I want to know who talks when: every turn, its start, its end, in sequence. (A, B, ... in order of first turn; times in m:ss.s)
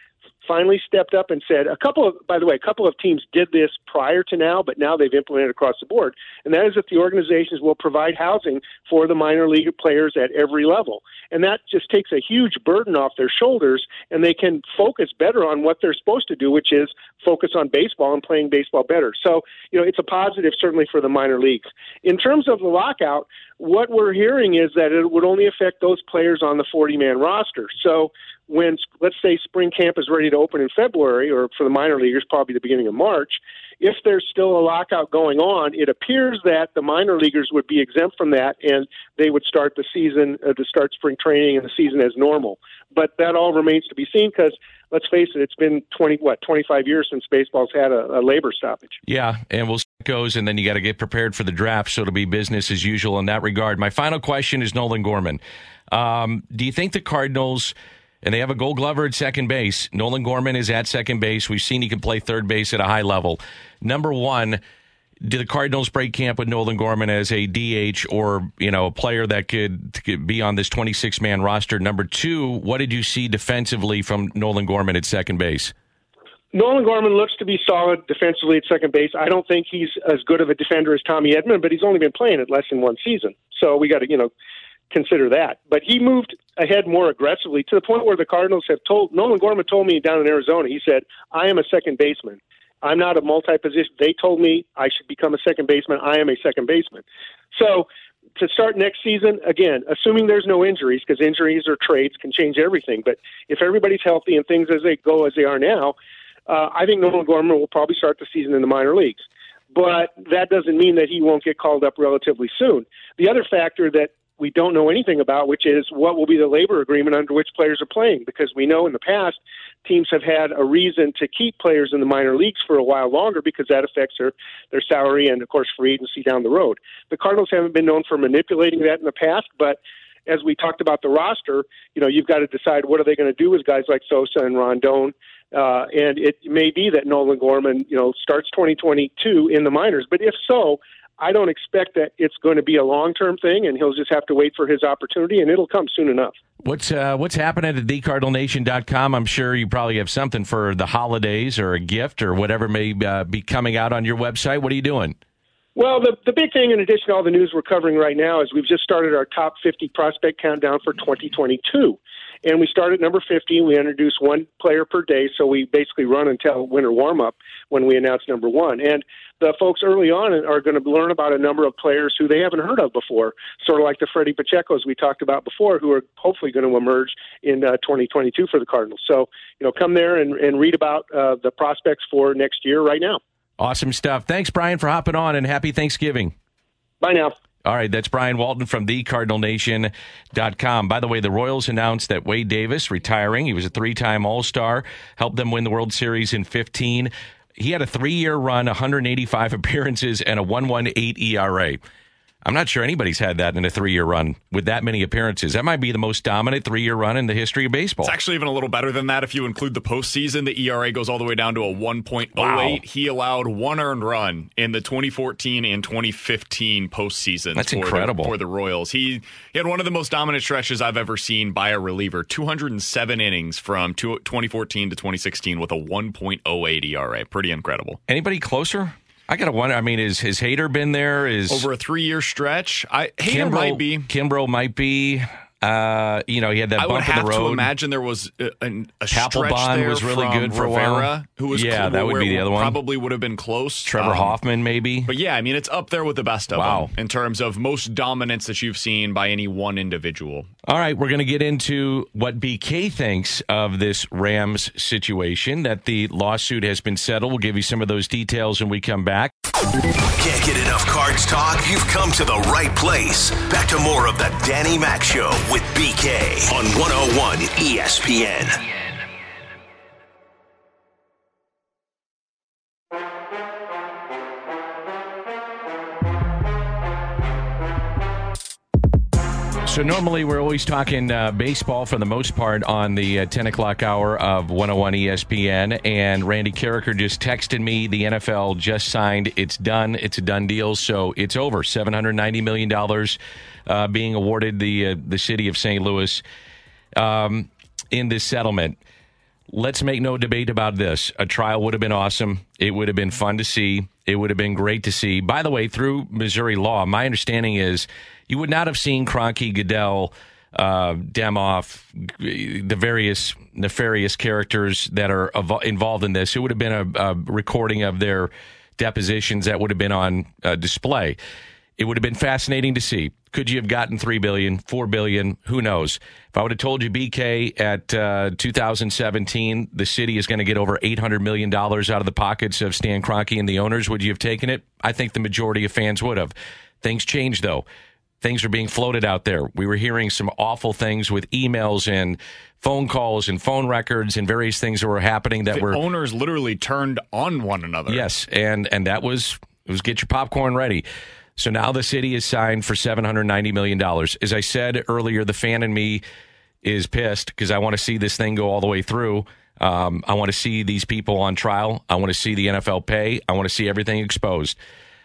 0:00.4-0:49.0 A
0:49.1-1:04.6 B
1:05.2-1:15.7 B
1:16.5-1:24.3 A
1:24.9-1:37.9 A
1:38.4-1:46.0 A
1:46.5-1:49.2 A
1:49.7-2:26.3 A
2:26.6-2:35.2 B
2:35.8-3:03.2 A
3:03.6-3:06.3 B
3:07.0-3:07.4 A
3:07.6-3:21.8 B
3:22.4-3:28.1 B
3:28.0-3:48.0 C
3:32.4-3:32.8 B
3:37.6-3:38.3 B
3:48.1-3:51.7 B
3:51.5-3:54.1 C
3:53.2-3:57.7 B
3:56.8-4:04.4 C
3:59.1-4:02.8 B
4:03.8-4:05.1 B
4:05.1-4:10.5 C
4:06.5-4:06.9 B
4:10.6-4:19.3 B
4:20.2-4:28.6 D
4:39.6-4:56.2 B
4:57.0-4:58.8 B
4:59.5-5:21.2 B
5:21.8-5:37.6 B
5:38.2-5:45.8 B
5:45.5-5:48.0 C
5:47.9-5:50.8 B
5:51.4-5:56.0 B
5:56.6-6:04.6 B